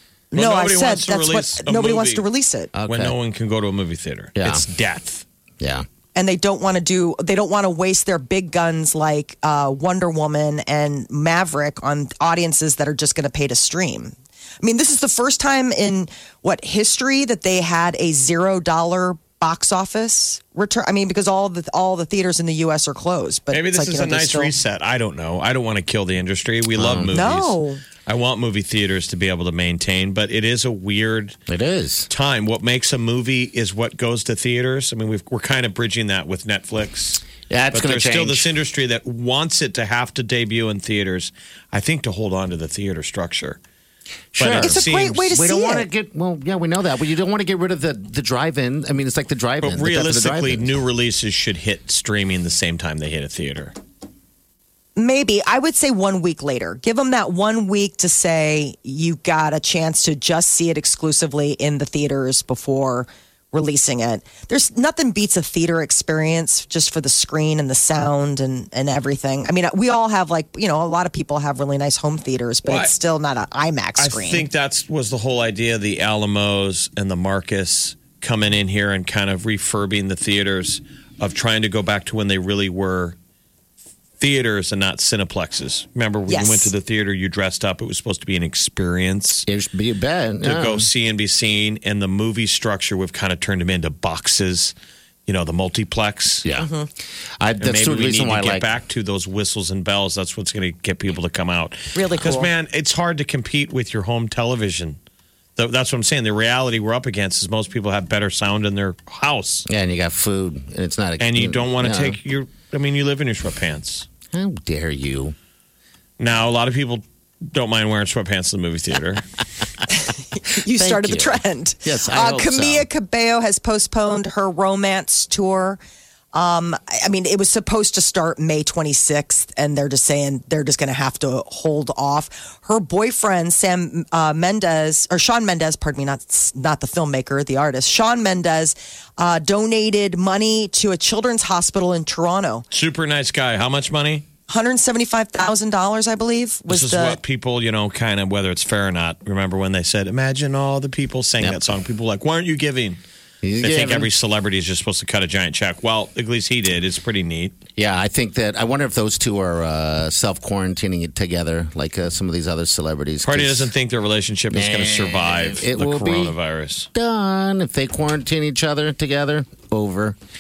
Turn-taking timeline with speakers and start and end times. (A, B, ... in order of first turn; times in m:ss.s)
0:00.3-0:02.7 A
0:00.3-0:02.2 B
0:02.8-0:03.2 C
0:02.9-0:05.2 B
0:04.4-0:04.7 C
0:05.6-0:05.9 C
0:06.2-0:24.5 A
0:23.5-0:31.4 B
0:26.8-0:27.2 C
0:27.1-0:27.8 A
0:31.5-0:32.1 C
0:32.1-0:43.6 B
0:37.5-0:38.5 C
0:44.3-0:50.8 C
0:44.4-0:45.3 B
0:44.6-0:45.9 A
0:49.6-0:53.7 B
0:55.0-1:14.5 A
1:12.6-1:12.9 B
1:14.0-1:23.2 B
1:24.2-1:29.4 B
1:26.3-1:26.7 A
1:29.5-1:30.9 C
1:30.4-1:34.7 B
1:35.3-1:36.4 B
1:36.4-1:36.7 C
1:36.6-1:36.9 A
1:37.4-1:38.6 C
1:37.6-1:45.0 B
1:42.0-1:42.5 A
1:45.6-1:49.7 B
1:49.7-1:52.2 C
1:51.2-1:54.1 B
1:54.3-1:55.4 C
1:56.2-1:59.3 B
1:59.9-2:05.8 A
2:00.7-2:02.9 C
2:06.3-2:22.6 A
2:22.7-2:24.2 B
2:24.5-2:27.2 A
2:26.7-2:33.0 B
2:33.4-2:34.1 C
2:33.6-2:37.6 B
2:37.8-2:43.7 C
2:43.2-2:46.9 B
2:44.5-2:46.4 C
2:46.9-2:50.2 C